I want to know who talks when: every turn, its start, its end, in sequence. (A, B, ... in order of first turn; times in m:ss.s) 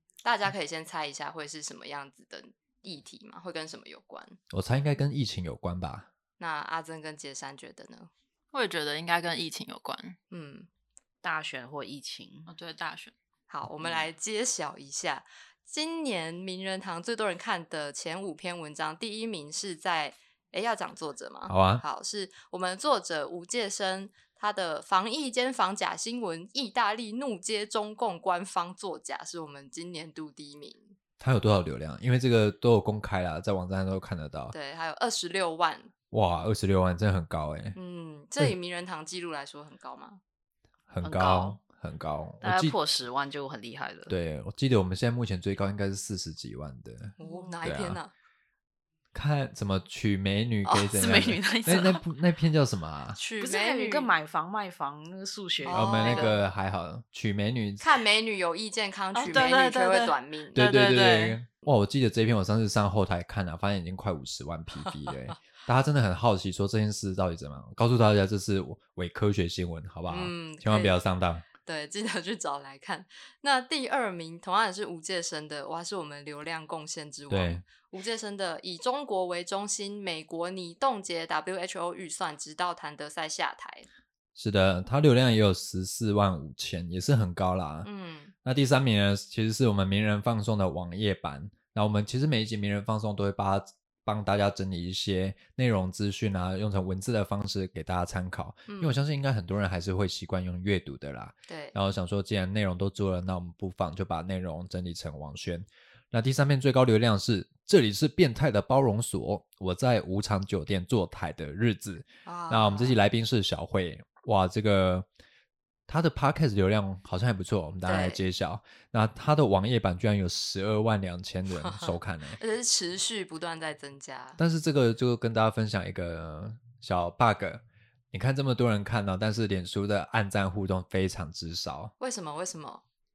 0:00.2-0:04.4 A
0:04.5-0:06.1 B
0:06.4-0:08.1 A
0:08.5-0:10.2 C
0:10.3-0:10.7 A
0:11.2-0:12.5 D
0:12.5-0:13.1 C
0:13.5-0:30.9 A
0:21.5-0:21.8 B
0:31.2-0:34.5 B
0:34.5-0:35.9 A
0:36.1-0:37.8 B
0:37.7-0:40.2 A
0:40.9-0:42.8 B
0:41.0-0:41.6 D
0:42.4-0:44.1 D
0:44.1-0:48.0 B
0:47.2-0:48.1 A
0:49.1-0:53.2 B
0:50.9-0:52.0 D
0:53.2-0:54.1 A
0:53.4-0:56.3 D
0:55.6-0:56.4 A
0:55.6-0:57.9 B
0:57.8-1:00.9 A
0:59.1-1:01.4 C
1:00.5-1:11.4 B
1:10.1-1:11.0 A
1:11.6-1:23.9 A
1:17.3-1:17.6 B
1:24.3-1:27.9 B
1:27.8-1:28.3 A
1:28.4-1:55.1 B
1:38.7-1:39.0 A
1:41.5-1:41.8 A
1:52.2-1:53.0 A
1:55.9-2:02.4 B
1:57.8-1:58.2 A
2:01.6-2:04.4 A
2:04.4-2:11.9 B
2:12.0-2:12.8 A